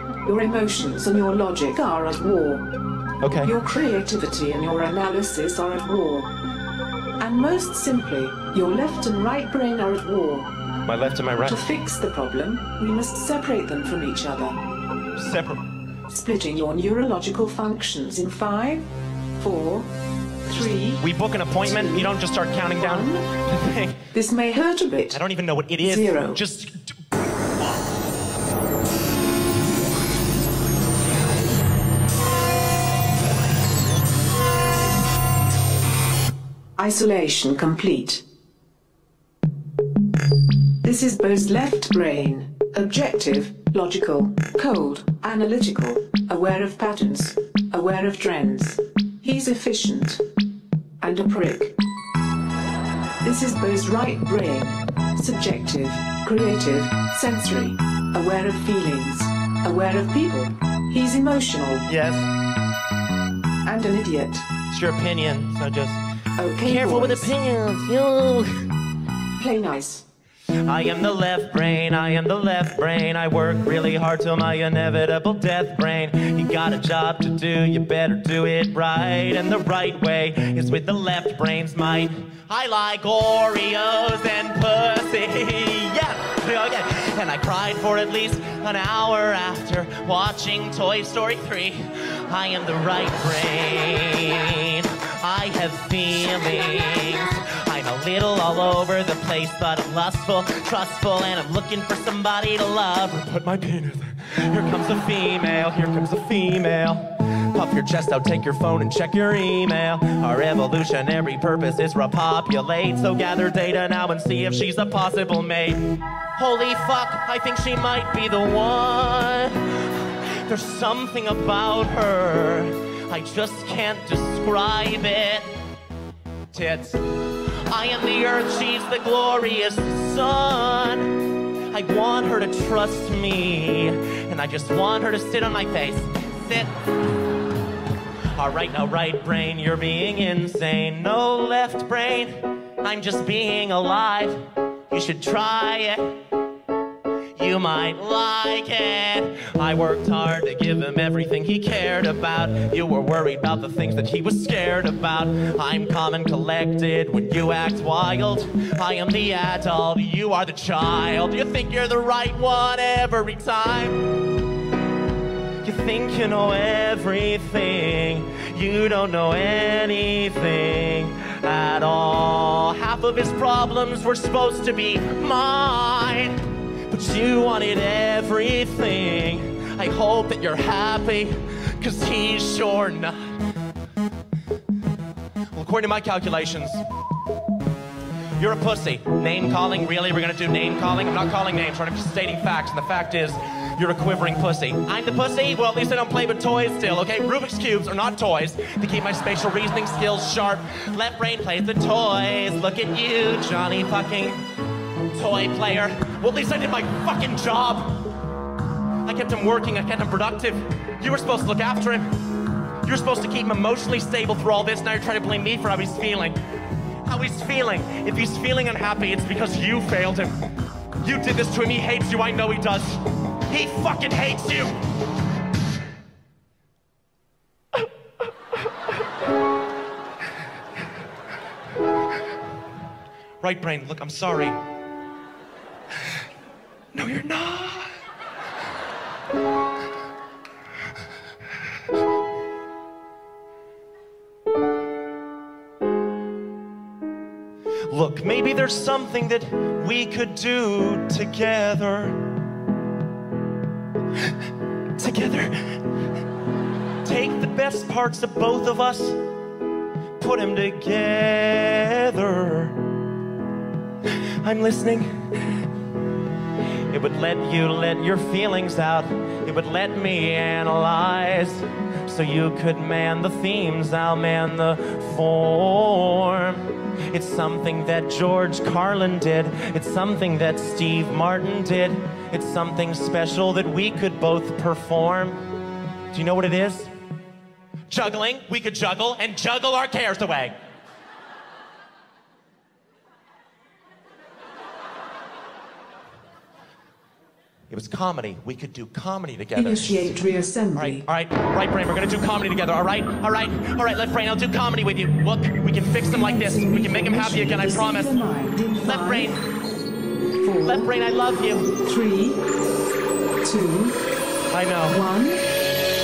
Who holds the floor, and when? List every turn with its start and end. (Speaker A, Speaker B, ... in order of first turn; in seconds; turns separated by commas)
Speaker A: 0.2-2.7, Speaker B: 3.2-3.5, Speaker A: 3.4-6.3, Speaker A: 7.2-10.5, Speaker B: 10.8-11.6, Speaker A: 11.4-14.6, Speaker B: 15.1-15.6, Speaker A: 16.1-19.9, Speaker A: 20.4-21.0, Speaker B: 21.0-24.1, Speaker A: 21.6-22.2, Speaker A: 22.8-23.2, Speaker A: 24.1-25.2, Speaker B: 25.1-26.8, Speaker A: 25.8-26.4, Speaker A: 36.8-38.2, Speaker A: 40.8-50.2, Speaker A: 51.0-51.7, Speaker A: 53.2-61.9, Speaker B: 61.9-62.3, Speaker A: 63.6-64.5, Speaker B: 64.7-66.0, Speaker A: 66.4-67.4, Speaker B: 66.6-68.7, Speaker A: 69.4-70.0, Speaker B: 70.6-125.5, Speaker B: 126.5-136.7, Speaker B: 138.3-146.2, Speaker B: 147.4-164.1, Speaker B: 165.6-183.4, Speaker B: 185.5-186.8, Speaker B: 188.4-204.4, Speaker B: 205.1-208.1, Speaker B: 209.0-212.1, Speaker B: 212.8-216.4, Speaker B: 217.0-220.4, Speaker B: 221.0-224.8, Speaker B: 233.4-234.6, Speaker B: 236.9-237.9, Speaker B: 247.9-252.3, Speaker B: 254.9-255.8, Speaker B: 257.0-259.3, Speaker B: 260.2-262.9, Speaker B: 264.4-265.6, Speaker B: 266.9-285.4, Speaker B: 286.1-286.9, Speaker B: 287.9-290.5, Speaker B: 297.7-300.2, Speaker A: 299.6-301.1, Speaker B: 300.8-308.2, Speaker A: 306.1-309.4, Speaker B: 308.8-309.4, Speaker A: 310.4-310.9, Speaker B: 310.6-311.7, Speaker A: 311.7-312.4, Speaker A: 313.4-314.0, Speaker B: 314.5-315.0, Speaker A: 314.9-315.4